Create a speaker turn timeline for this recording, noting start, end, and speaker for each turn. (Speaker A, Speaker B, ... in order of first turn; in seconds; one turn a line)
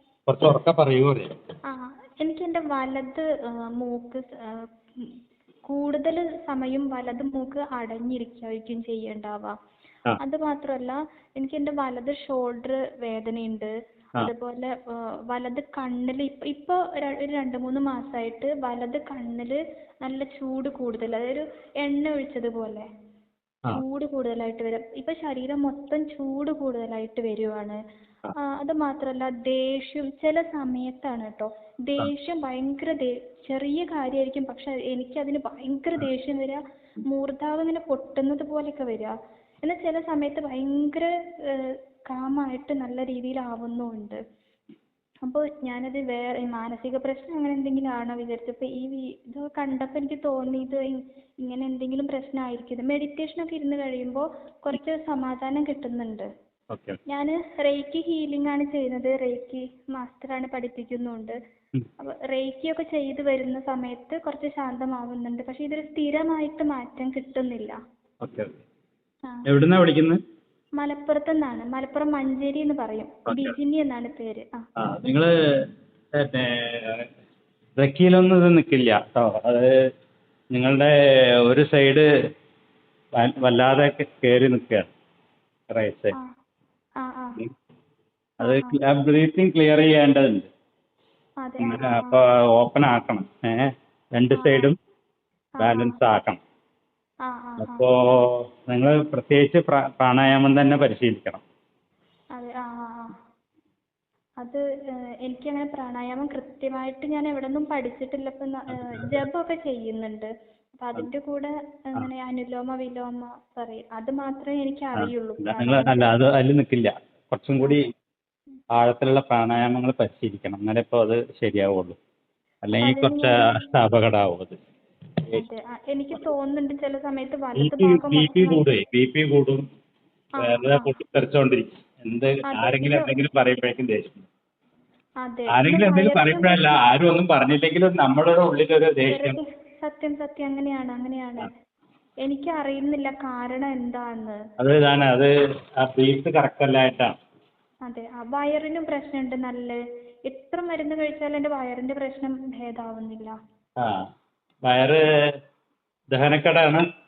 Speaker A: 0.3-1.3
Speaker B: 1.7-5.1
Speaker B: 5.7-9.5
Speaker B: 10.2-14.7
Speaker B: 15.3-22.9
Speaker B: 23.7-27.8
Speaker B: 28.6-39.1
Speaker B: 39.6-44.2
Speaker B: 45.2-50.8
Speaker B: 51.4-56.3
Speaker A: 56.7-57.0
Speaker B: 57.1-61.3
Speaker B: 62.0-67.8
Speaker A: 68.2-68.6
Speaker A: 69.5-70.2
Speaker B: 70.8-74.6
Speaker A: 73.3-73.5
Speaker A: 74.8-75.3
Speaker A: 76.2-77.1
Speaker A: 77.8-79.7
Speaker A: 80.5-80.9
Speaker A: 81.5-82.0
Speaker A: 83.2-84.9
Speaker A: 85.7-86.1
Speaker B: 87.0-87.4
Speaker B: 88.4-88.8
Speaker A: 88.4-90.5
Speaker B: 91.4-92.2
Speaker A: 91.6-94.8
Speaker B: 94.3-94.7
Speaker B: 95.6-96.0
Speaker A: 95.6-96.4
Speaker B: 97.2-97.9
Speaker A: 97.6-101.4
Speaker B: 102.3-103.1
Speaker B: 105.2-116.1
Speaker A: 108.7-109.2
Speaker A: 115.0-117.9
Speaker A: 118.8-122.0
Speaker A: 122.6-124.6
Speaker B: 122.8-123.6
Speaker B: 125.3-128.6
Speaker A: 127.6-129.7
Speaker B: 130.4-130.9
Speaker A: 130.4-134.3
Speaker B: 132.5-133.1
Speaker B: 135.2-136.7
Speaker A: 135.5-139.4
Speaker B: 139.1-141.5
Speaker B: 142.2-144.4
Speaker A: 144.6-147.1
Speaker B: 147.8-149.8
Speaker B: 150.3-153.3
Speaker A: 153.8-154.1
Speaker A: 154.6-155.0
Speaker A: 156.1-156.8